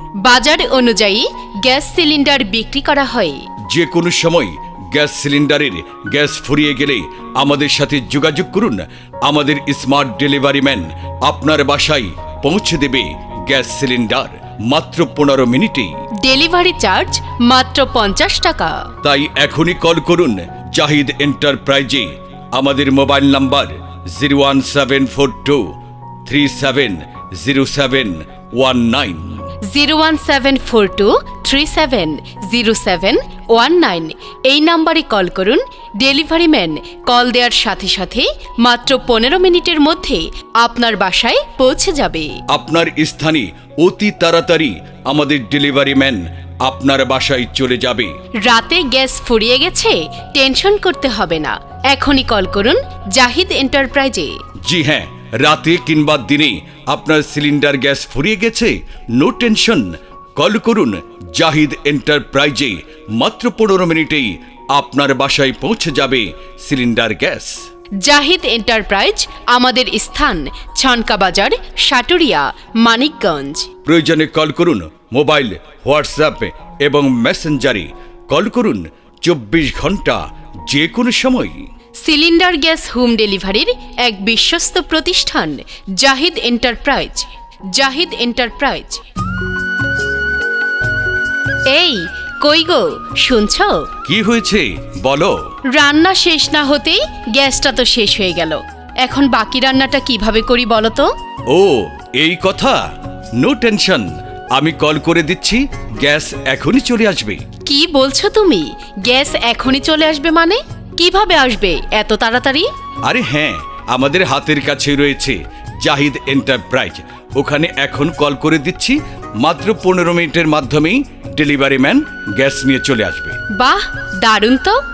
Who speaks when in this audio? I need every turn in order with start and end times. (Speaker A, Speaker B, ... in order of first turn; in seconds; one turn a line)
Speaker A: 0.2-3.5
Speaker B: 3.7-15.9
Speaker A: 16.2-18.9
Speaker B: 19.0-25.7
Speaker B: 26.3-29.4
Speaker A: 29.7-42.4
Speaker B: 42.5-48.1
Speaker A: 48.4-54.4
Speaker B: 54.6-67.7
Speaker A: 68.0-73.7
Speaker B: 73.8-81.7
Speaker A: 82.0-89.0
Speaker A: 91.7-93.9
Speaker B: 94.0-95.4
Speaker A: 95.7-101.1
Speaker B: 101.5-102.8
Speaker B: 103.4-107.4
Speaker A: 107.7-112.7
Speaker B: 113.1-123.4
Speaker A: 123.5-124.8